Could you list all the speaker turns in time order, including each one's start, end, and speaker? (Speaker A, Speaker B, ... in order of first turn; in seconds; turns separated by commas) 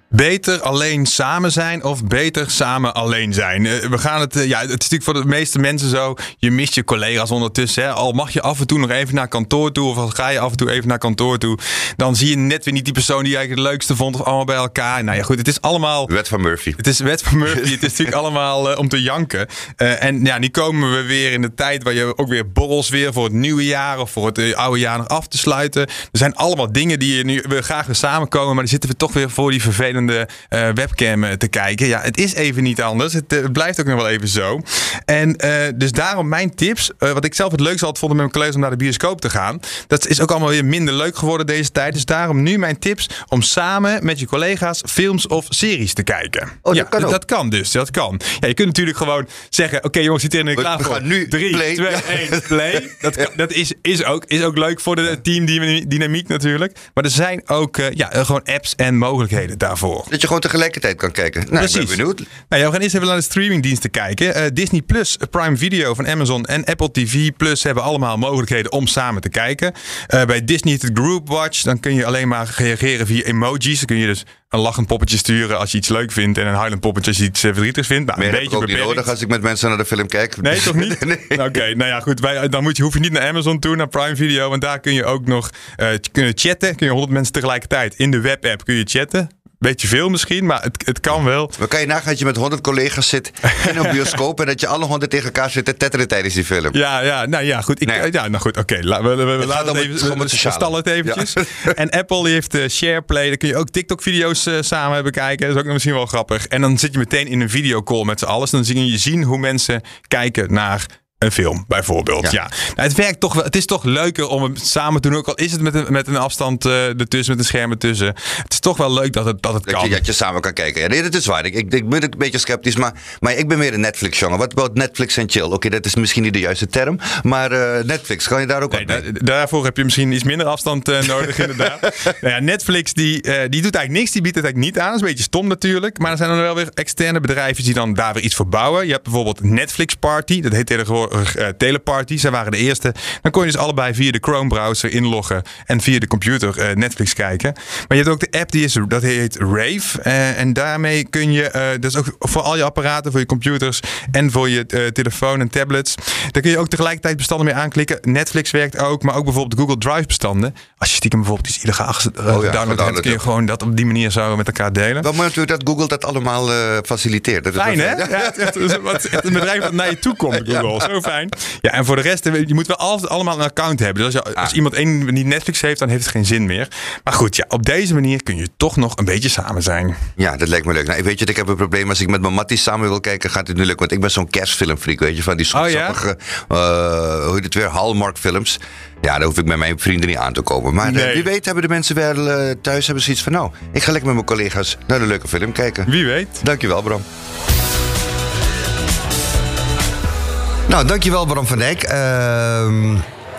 Speaker A: 0.1-16.1, Speaker B: 16.1-16.8, Speaker A: 16.8-60.1, Speaker B: 17.6-17.9, Speaker B: 46.6-47.2, Speaker B: 50.5-53.2, Speaker B: 60.1-62.2, Speaker A: 61.6-62.0, Speaker A: 62.5-79.1, Speaker B: 78.2-81.6, Speaker A: 80.4-91.6, Speaker B: 91.6-96.8, Speaker A: 93.5-94.0, Speaker A: 96.7-120.0, Speaker B: 99.4-101.7, Speaker B: 119.7-129.0, Speaker A: 128.7-165.1, Speaker B: 162.3-163.2, Speaker B: 165.0-169.6, Speaker A: 167.6-179.9, Speaker B: 170.3-170.9, Speaker B: 180.2-195.9, Speaker A: 185.5-186.0, Speaker A: 190.8-191.2, Speaker A: 195.9-196.4, Speaker B: 196.4-197.1, Speaker B: 200.7-203.1